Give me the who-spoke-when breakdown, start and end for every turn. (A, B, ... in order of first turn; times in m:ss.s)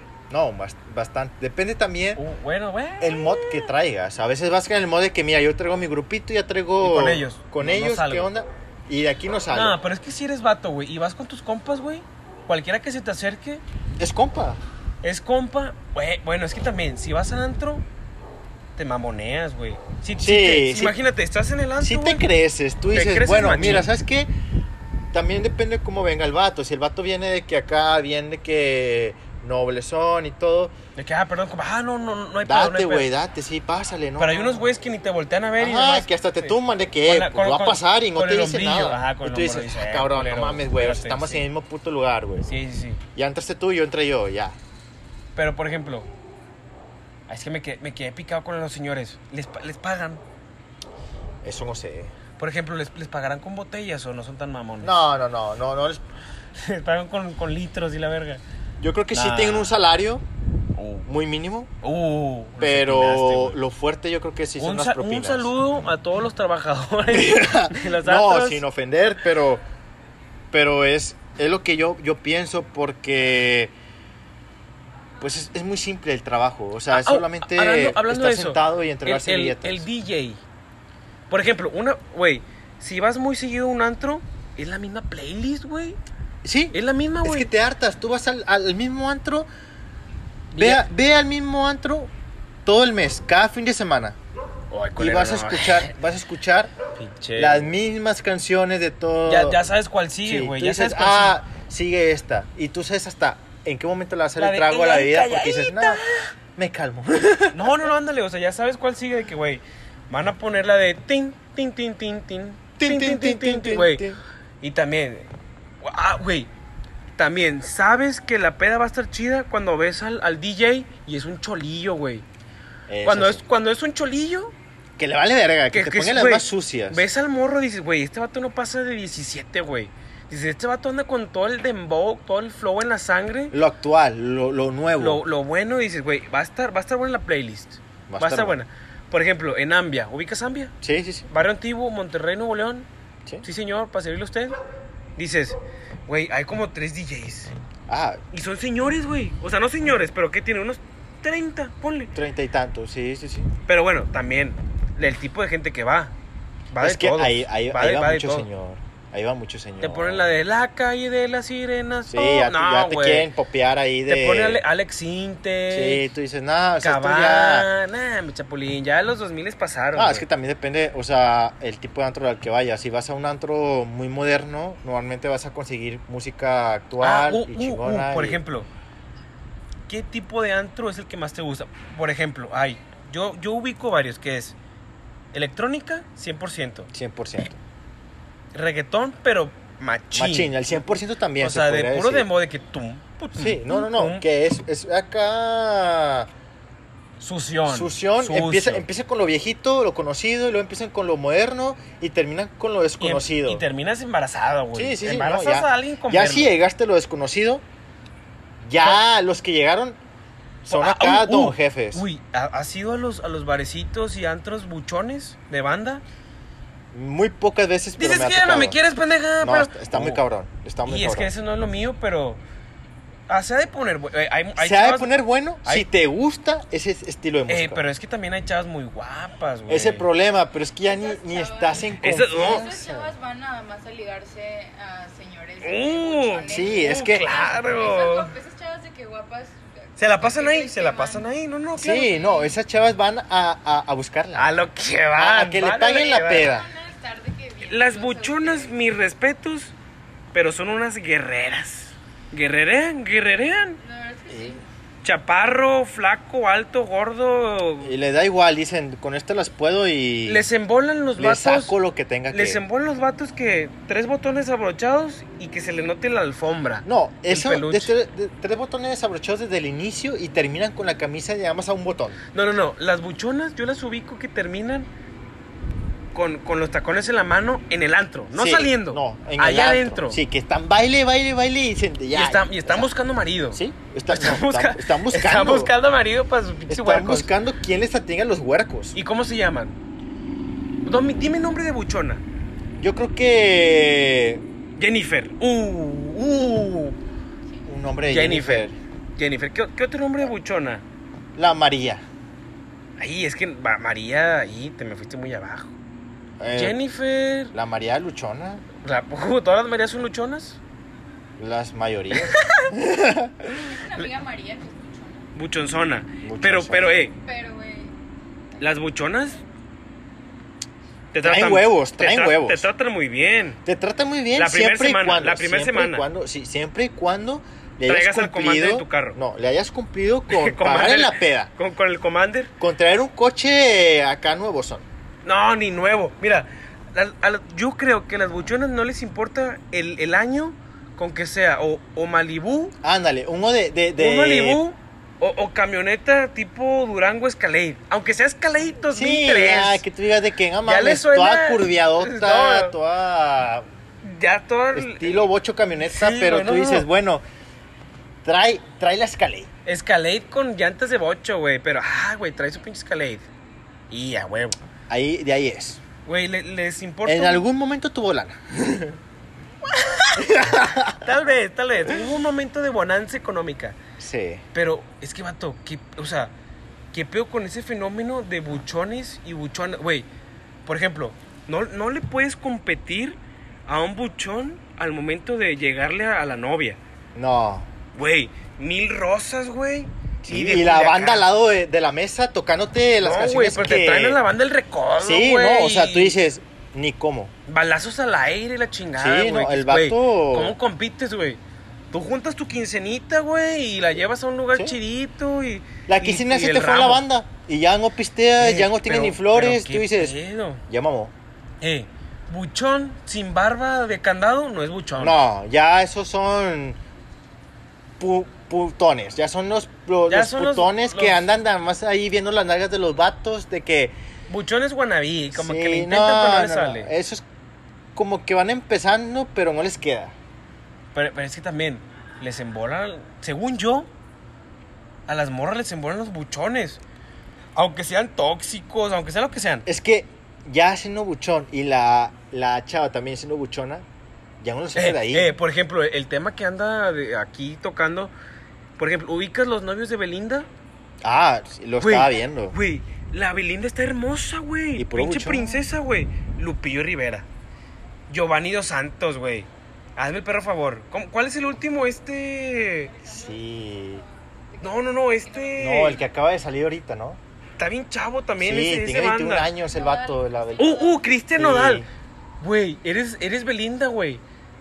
0:00.3-0:02.2 A
0:02.2-0:03.6 B
0:03.0-0:09.8 A
0:06.8-0:08.3 B
0:09.5-0:13.6 B
0:14.0-0:14.6 A
0:15.0-0:17.8 B
0:18.8-0:22.2 B
0:20.2-0:21.0 A
0:21.8-0:24.3 A
0:22.9-0:23.9 B
0:25.1-0:30.7 A
0:31.0-0:33.1 B
0:32.4-0:34.7 A
0:34.2-0:41.4 B
0:35.6-0:42.5 A
0:42.4-0:43.0 B
0:43.1-0:44.6 A
0:45.4-0:46.1 B
0:47.3-0:50.2 B
0:51.4-0:52.1 A
0:52.4-0:55.0 B
0:54.8-0:56.0 A
0:56.5-0:58.4 B
0:58.8-1:00.2 A
0:59.1-0:59.8 B
1:00.8-1:01.1 B
1:01.0-1:01.7 A
1:01.8-1:03.6 B
1:02.6-1:05.5 A
1:04.6-1:08.6 B
1:07.1-1:09.6 A
1:10.5-1:13.7 A
1:15.2-1:19.8 A
1:16.9-1:20.4 B
1:21.3-1:26.0 B
1:26.4-1:29.5 A
1:26.7-1:27.5 B
1:30.5-1:30.8 B
1:30.6-1:32.1 A
1:32.6-1:34.2 A
1:34.7-1:35.9 B
1:35.0-1:36.7 A
1:37.0-1:37.7 B
1:37.4-1:39.6 A
1:39.3-1:41.4 B
1:40.2-1:46.0 A
1:44.4-1:46.2 B
1:46.6-1:47.8 A
1:47.5-1:54.0 B
1:52.8-1:54.2 A
1:54.6-1:55.3 B
1:55.8-1:56.5 B
1:57.2-2:02.2 B
2:02.9-2:03.4 A
2:03.0-2:04.5 B
2:05.0-2:07.0 A
2:05.7-2:13.5 B
2:13.5-2:15.2 A
2:15.0-2:20.7 B
2:18.1-2:18.6 A
2:20.8-2:21.3 A
2:21.3-2:22.9 B
2:23.4-2:24.6 B
2:25.2-2:27.5 B
2:27.9-2:28.2 A
2:28.3-2:32.1 B
2:32.1-2:33.5 A
2:33.6-2:36.1 B
2:36.7-2:38.5 B
2:36.8-2:40.4 A
2:39.8-2:43.3 B
2:42.1-2:44.6 A
2:44.0-2:46.1 B
2:45.7-2:47.7 A
2:46.8-2:50.2 B
2:49.9-2:58.4 A
2:57.0-2:58.7 B
2:59.9-3:04.6 B
3:05.3-3:06.9 B
3:06.9-3:07.6 A
3:08.5-3:10.5 B
3:10.1-3:12.3 A
3:11.4-3:14.2 B
3:13.3-3:16.3 A
3:17.2-3:18.8 B
3:17.7-3:23.6 A
3:23.0-3:26.5 B
3:24.7-3:27.6 A
3:28.6-3:30.0 A
3:30.6-3:32.0 A
3:30.7-3:36.0 B
3:36.9-3:38.8 A
3:38.0-3:40.2 B
3:39.4-3:41.3 A
3:40.8-3:42.4 B
3:43.3-3:45.9 B
3:44.6-3:47.8 A
3:47.5-3:50.1 B
3:49.7-3:53.1 A
3:50.8-4:01.3 C
3:52.0-3:52.7 B
3:55.6-3:58.3 B
3:56.5-3:57.3 A
4:00.0-4:02.1 B
4:01.8-4:04.6 A
4:01.9-4:02.6 C
4:04.4-4:06.5 B
4:05.2-4:06.7 A
4:06.2-4:08.8 C
4:07.6-4:09.7 B
4:10.3-4:13.8 B
4:13.8-4:14.6 C
4:14.3-4:14.6 A
4:15.0-4:17.9 B
4:17.8-4:20.5 A
4:20.2-4:21.7 B
4:21.2-4:22.6 A
4:22.3-4:27.9 B
4:26.8-4:32.2 A
4:32.3-4:34.9 B
4:36.1-4:40.2 B
4:38.3-4:42.9 A
4:42.1-4:47.3 B
4:43.5-4:45.7 A
4:46.7-4:49.0 A
4:48.9-4:49.8 B
4:50.8-4:52.2 B
4:52.8-4:54.4 A
4:54.8-4:57.0 B
4:57.6-4:58.7 A
4:58.0-5:00.8 B
5:01.3-5:02.0 A
5:03.0-5:05.8 B
5:06.4-5:06.8 A
5:06.5-5:07.5 B
5:07.5-5:08.6 A
5:08.8-5:10.6 B
5:11.4-5:13.5 A
5:12.2-5:12.7 B
5:13.6-5:15.3 C
5:15.3-5:17.1 B
5:16.2-5:16.9 A
5:17.2-5:17.9 C
5:18.6-5:19.4 B
5:21.1-5:23.6 B
5:21.2-5:22.7 A
5:23.6-5:31.5 A
5:24.3-5:26.1 B
5:27.8-5:29.2 B
5:30.3-5:32.5 B
5:32.6-5:34.8 A
5:35.2-5:42.7 B
5:42.8-5:44.6 A
5:44.0-5:49.8 B
5:48.9-5:53.6 A
5:50.6-5:52.8 B
5:54.0-5:55.3 B
5:54.7-5:57.2 A
5:55.8-5:56.9 B
5:58.2-5:59.5 A
5:59.6-6:03.3 B
6:03.9-6:04.6 B
6:04.9-6:05.8 A
6:06.0-6:07.4 B
6:07.0-6:09.0 A
6:09.7-6:10.2 B
6:10.2-6:11.0 A
6:10.9-6:13.8 B
6:14.0-6:14.4 A
6:14.5-6:16.3 B
6:16.9-6:20.1 B
6:20.6-6:26.8 B
6:27.1-6:27.7 A
6:27.9-6:31.3 B
6:30.2-6:34.2 A
6:33.0-6:36.2 B
6:35.0-6:37.3 A
6:37.5-6:41.4 B
6:39.0-6:40.6 A
6:41.9-6:47.0 B
6:45.9-6:50.2 A
6:48.4-6:50.6 B
6:50.7-6:51.1 A
6:51.6-6:55.2 B
6:55.0-6:56.8 A
6:58.0-7:03.9 A
7:00.1-7:01.2 B
7:04.3-7:06.9 B
7:05.3-7:07.2 A
7:08.0-7:10.1 A
7:10.9-7:13.9 B
7:15.1-7:16.8 B
7:17.6-7:19.6 B
7:19.6-7:23.8 A
7:24.4-7:25.3 A
7:24.8-7:28.1 B
7:28.8-7:30.5 B
7:31.0-7:32.6 A
7:31.8-7:37.2 B
7:34.8-7:35.7 A
7:38.1-7:43.0 B
7:43.0-7:44.0 A
7:44.6-7:46.0 B
7:45.3-7:45.5 C
7:45.6-7:47.2 A
7:47.6-7:49.6 B
7:48.4-7:50.8 A
7:49.7-7:51.1 C
7:50.6-7:51.8 B
7:51.4-7:51.9 A
7:52.4-7:54.2 B